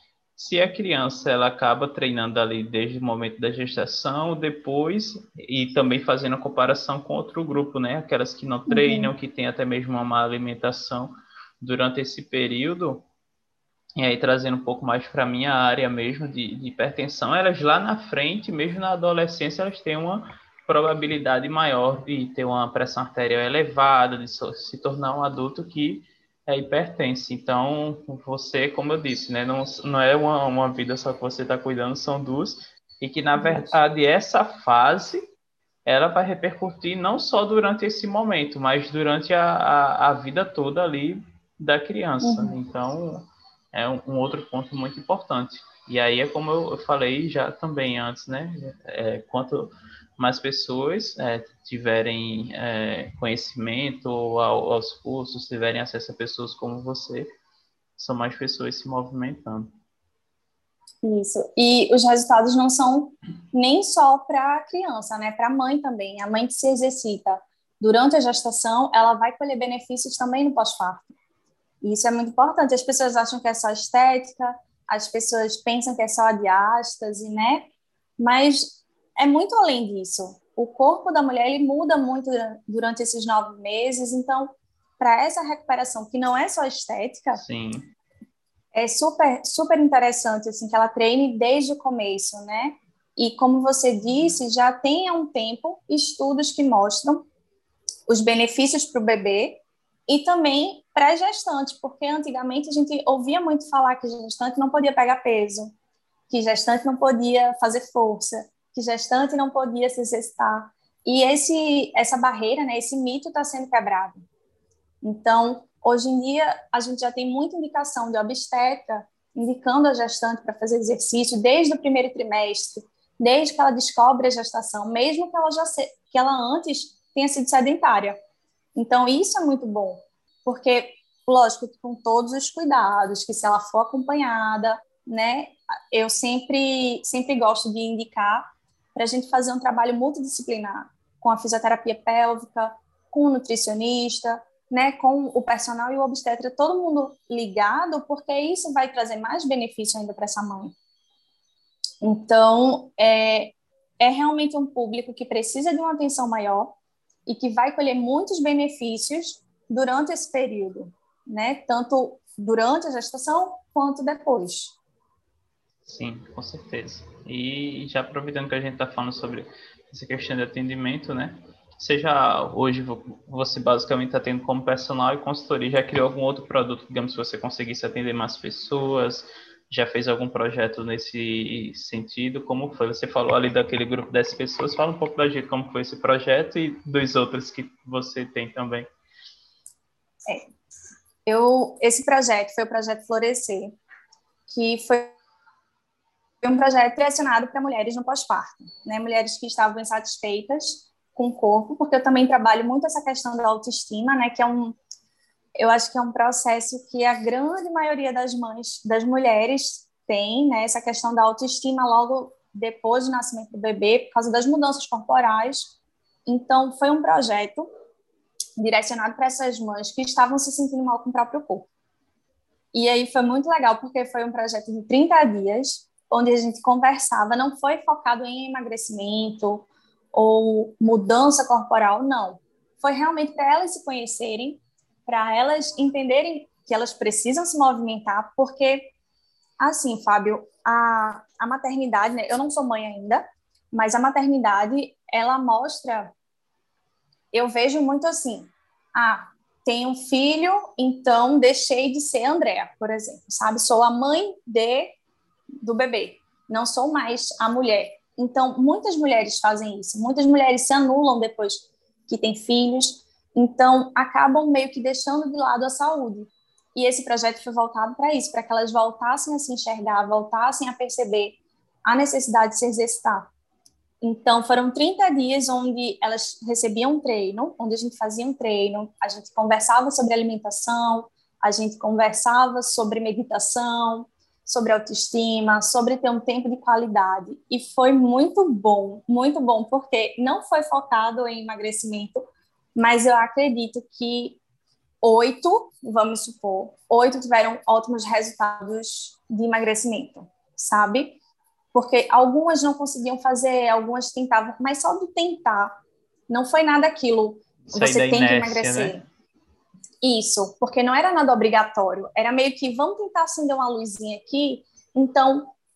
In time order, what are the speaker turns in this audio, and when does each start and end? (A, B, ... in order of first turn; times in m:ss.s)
0:00.4-0:13.0 A
0:08.7-0:09.1 B
0:14.0-0:35.2 A
0:33.4-0:33.8 B
0:35.8-0:57.3 A
0:42.2-0:42.6 B
0:58.0-0:59.7 A
1:01.0-1:11.2 B
1:11.8-1:27.4 B
1:27.3-1:27.9 A
1:28.7-1:37.3 B
1:38.1-1:45.7 B
1:46.3-1:54.2 B
1:55.0-2:08.2 B
2:08.7-2:30.7 B
2:32.0-2:36.7 B
2:37.2-2:44.8 B
2:45.8-3:08.9 A
3:11.2-3:13.8 B
3:14.5-3:15.1 B
3:16.4-3:24.8 B
3:25.6-3:35.7 B
3:36.2-3:37.7 B
3:38.6-3:41.7 B
3:42.7-3:58.9 B
3:59.6-4:06.1 B
4:07.3-4:14.9 B
4:15.6-4:33.3 B
4:34.0-4:54.4 B
4:55.0-5:01.2 B
5:01.7-5:05.8 B
5:06.3-5:09.0 B
5:07.7-5:09.0 A
5:10.0-5:15.5 B